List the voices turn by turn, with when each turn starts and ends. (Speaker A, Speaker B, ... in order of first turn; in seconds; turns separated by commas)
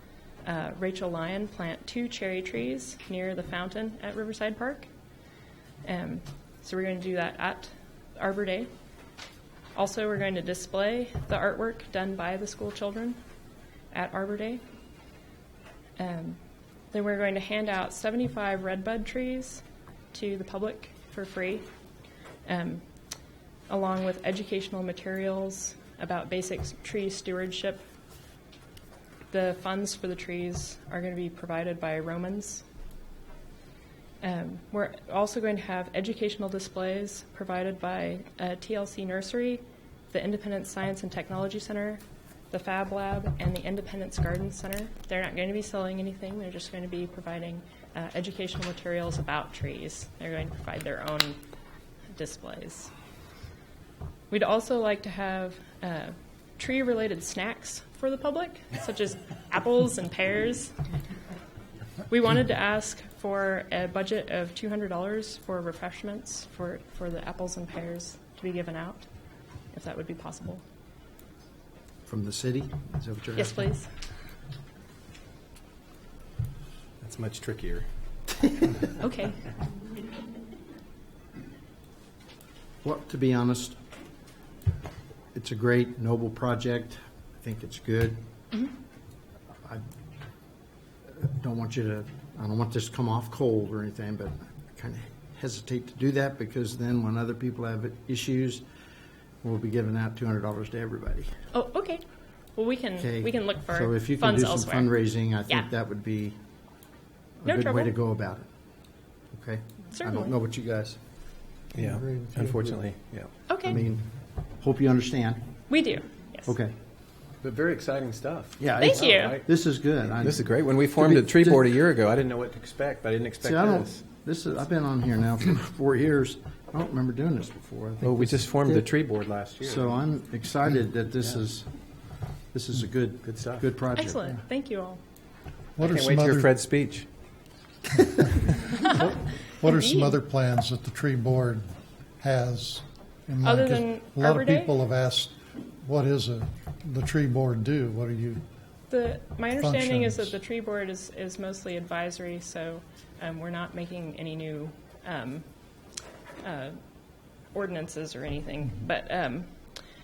Speaker A: 0.4-4.9, Speaker A: 5.8-8.7, Speaker A: 9.7-13.2, Speaker A: 13.9-14.6, Speaker A: 16.0-16.4, Speaker A: 16.9-21.6, Speaker A: 22.4-22.8, Speaker A: 23.7-27.8, Speaker A: 29.3-32.6, Speaker A: 34.2-51.4, Speaker A: 52.1-52.9, Speaker A: 54.3-60.7, Speaker A: 62.1-69.1, Speaker A: 69.7-70.6, Speaker B: 72.0-73.7, Speaker A: 73.3-73.9, Speaker C: 77.0-77.9, Speaker A: 79.0-79.4, Speaker B: 82.8-83.8, Speaker B: 85.3-88.2, Speaker B: 91.1-98.6, Speaker B: 99.4-101.3, Speaker A: 101.5-102.0, Speaker A: 102.5-104.9, Speaker B: 103.0-106.4, Speaker B: 107.4-108.5, Speaker A: 107.4-107.9, Speaker B: 109.3-111.0, Speaker A: 109.9-110.3, Speaker C: 111.7-113.3, Speaker B: 111.8-112.8, Speaker A: 113.5-113.8, Speaker B: 113.7-114.1, Speaker B: 114.6-115.4, Speaker A: 115.7-116.5, Speaker B: 116.5-116.7, Speaker C: 117.4-119.5, Speaker B: 118.6-121.6, Speaker A: 118.8-119.4, Speaker C: 120.0-124.0, Speaker B: 123.4-128.8, Speaker C: 128.0-129.9, Speaker B: 129.6-131.7, Speaker B: 132.5-134.2, Speaker C: 133.2-133.6, Speaker A: 133.9-135.0, Speaker D: 135.8-136.5, Speaker C: 135.8-137.1, Speaker A: 138.7-139.1, Speaker D: 138.8-141.7, Speaker A: 139.6-140.1, Speaker D: 142.2-148.4, Speaker A: 143.4-144.7, Speaker A: 148.9-155.4, Speaker D: 149.6-150.3, Speaker A: 156.4-156.8, Speaker A: 157.5-159.5